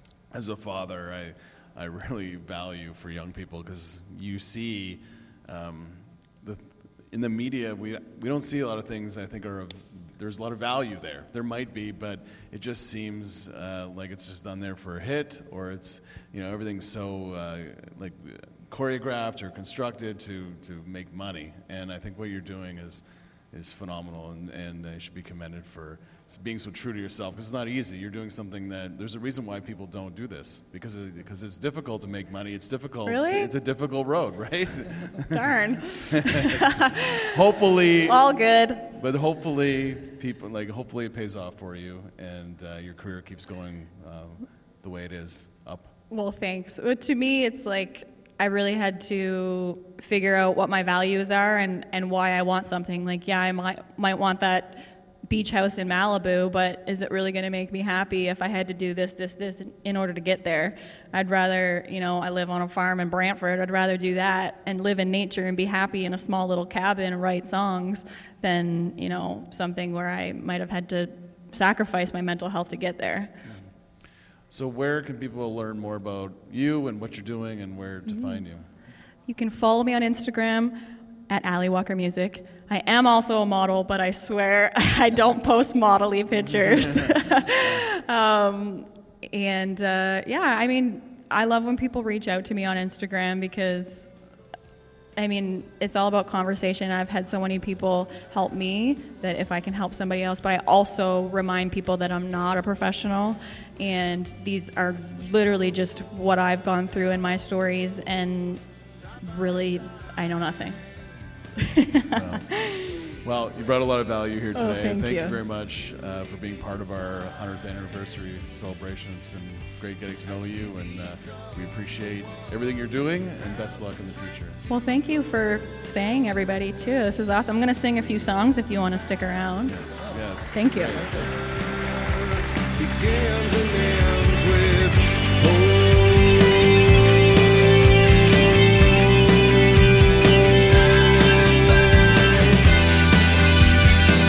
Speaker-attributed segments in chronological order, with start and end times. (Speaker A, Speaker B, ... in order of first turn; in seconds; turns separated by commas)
Speaker A: 0.3-35.4, Speaker B: 33.1-33.5, Speaker B: 35.3-37.3, Speaker A: 36.2-38.2, Speaker B: 38.1-38.9, Speaker A: 38.9-45.9, Speaker B: 46.1-73.3, Speaker A: 74.5-78.7, Speaker B: 78.1-78.4, Speaker B: 79.3-80.8, Speaker B: 81.3-94.1, Speaker B: 95.2-108.6, Speaker B: 109.2-110.8, Speaker B: 111.6-113.0, Speaker A: 112.1-124.6, Speaker B: 114.5-115.3, Speaker B: 124.7-129.8, Speaker A: 129.7-131.3, Speaker B: 130.5-131.0, Speaker C: 132.8-136.5